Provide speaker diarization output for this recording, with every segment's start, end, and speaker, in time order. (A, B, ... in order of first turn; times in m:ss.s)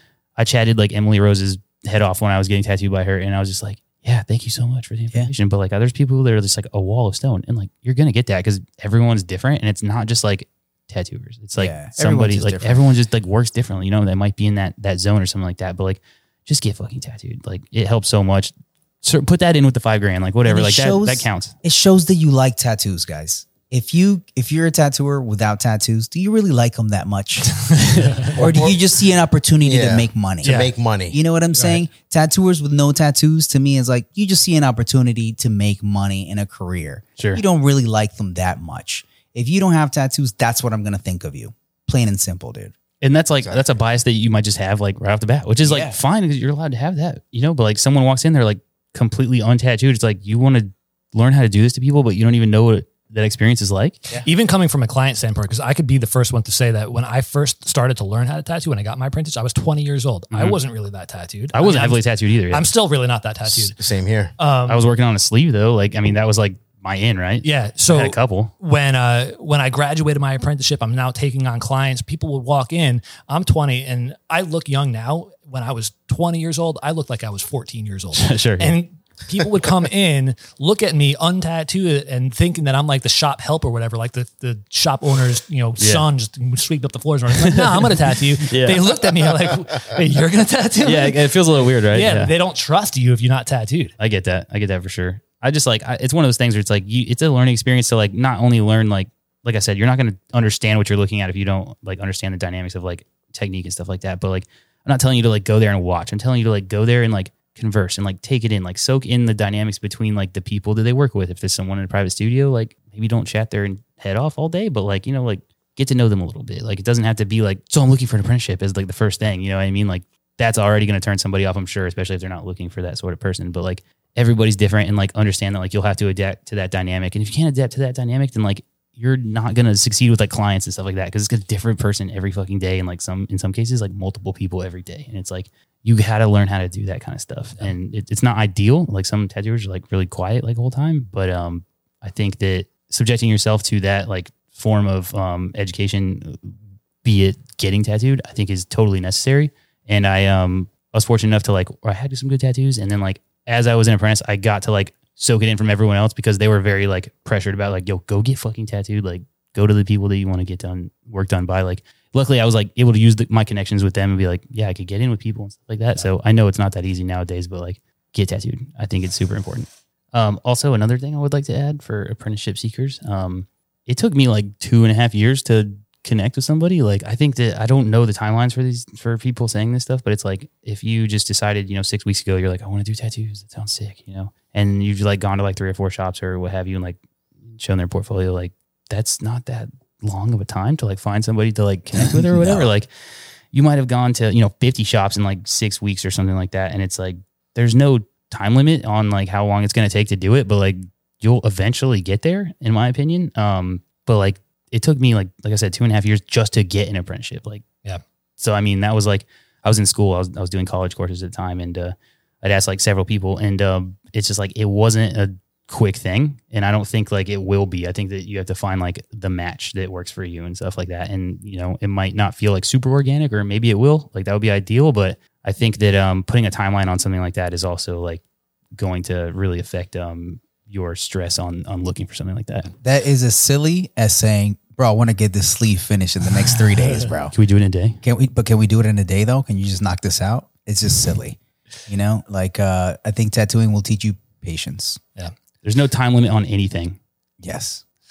0:00.4-0:21.5 A
0:11.6-0:12.8 B
0:20.4-0:27.5 B
0:27.6-0:28.5 C
0:28.0-0:28.4 A
0:28.4-0:42.7 B
0:29.6-0:31.2 D
0:30.4-0:30.7 C
0:31.6-0:31.8 C
0:43.0-0:54.0 A
0:43.4-0:43.8 D
0:45.6-0:46.0 B
0:54.2-1:03.8 C
1:00.3-1:00.6 A
1:01.5-1:02.7 A
1:03.5-1:04.3 D
1:04.4-1:04.9 C
1:04.7-1:08.5 A
1:07.4-1:33.9 C
1:18.2-1:18.8 A
1:25.8-1:26.1 A
1:27.4-1:29.2 A
1:30.8-1:32.3 A
1:34.0-3:07.0 A
3:07.5-3:27.6 A
3:12.0-3:12.7 B
3:28.4-3:48.2 A
3:48.8-3:52.7 A
3:52.8-3:57.3 B
3:57.3-3:58.0 A
3:58.0-4:05.0 B
4:05.6-4:07.0 A
4:07.4-4:07.8 B